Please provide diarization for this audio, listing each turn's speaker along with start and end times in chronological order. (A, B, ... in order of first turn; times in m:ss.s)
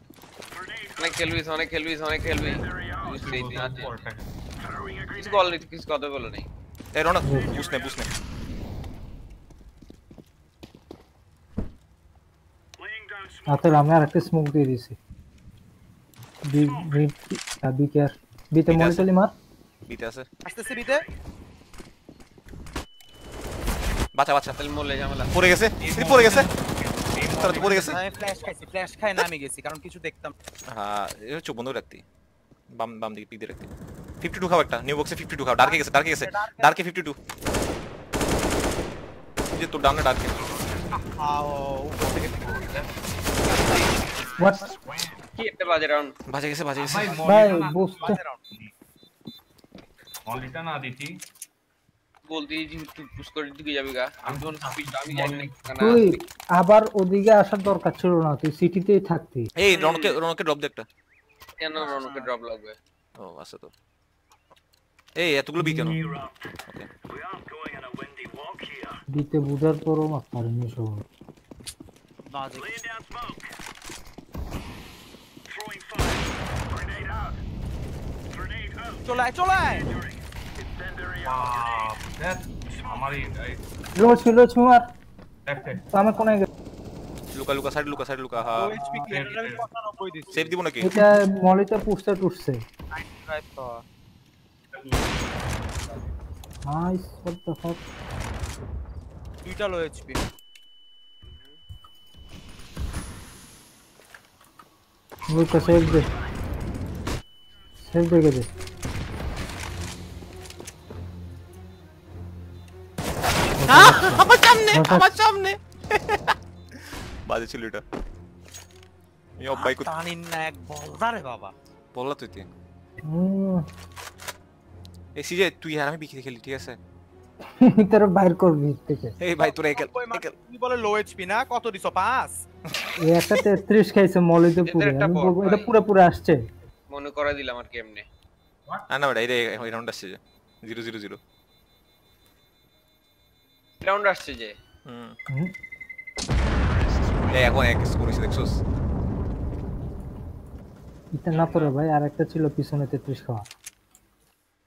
0:01.0-0:04.0 A
0:03.2-0:04.3 B
0:05.1-0:06.5 A
0:06.9-0:08.1 C
0:13.5-0:15.0 D
0:16.4-0:19.3 D
0:18.7-0:19.1 C
0:19.9-0:20.3 C
0:20.4-0:21.0 E
0:24.1-0:24.6 C
0:24.6-0:25.3 A
0:25.3-0:26.5 C
0:25.8-0:28.7 B
0:27.3-0:28.0 C
0:27.6-0:30.3 E
0:30.7-0:32.0 C
0:32.7-0:33.7 C
0:34.2-0:37.2 C
0:35.6-0:36.7 E
0:39.5-0:40.4 C
0:41.2-0:42.7 E
0:42.1-0:43.0 B
0:44.4-0:44.8 D
0:44.9-0:45.2 B
0:45.4-0:46.1 A
0:46.3-0:47.2 C
0:46.8-0:48.7 B
0:47.2-0:48.2 D
0:48.0-0:48.4 E
0:50.2-0:51.2 B
0:52.3-0:56.2 A
0:54.2-0:55.7 B
0:55.8-0:59.5 D
0:59.6-1:00.8 C
0:59.7-1:00.2 A
1:01.6-1:02.8 A
1:01.7-1:02.3 E
1:03.2-1:03.7 C
1:05.2-1:06.9 C
1:05.6-1:06.2 D
1:09.1-1:11.0 D
1:12.3-1:12.8 E
1:19.0-1:19.9 E
1:21.2-1:23.6 B
1:24.0-1:24.9 D
1:25.4-1:25.9 B
1:25.9-1:26.5 D
1:27.3-1:28.7 C
1:28.5-1:30.4 E
1:29.1-1:29.7 B
1:30.3-1:30.9 C
1:30.8-1:32.6 D
1:32.9-1:33.8 E
1:34.7-1:36.0 B
1:36.6-1:37.8 D
1:39.4-1:40.3 E
1:45.3-1:46.1 D
1:47.8-1:48.5 D
1:53.6-1:55.2 D
1:53.7-1:57.8 C
1:59.4-1:59.9 C
1:59.5-2:01.5 E
2:01.9-2:02.5 C
2:03.0-2:03.6 D
2:05.2-2:06.8 C
2:07.6-2:09.2 D
2:09.2-2:10.3 C
2:09.4-2:12.4 E
2:12.7-2:12.9 C
2:13.0-2:16.4 D
2:14.6-2:15.7 A
2:16.9-2:18.0 A
2:18.9-2:21.2 C
2:23.8-2:24.5 A
2:24.8-2:25.2 C
2:27.3-2:28.6 C
2:31.1-2:33.4 D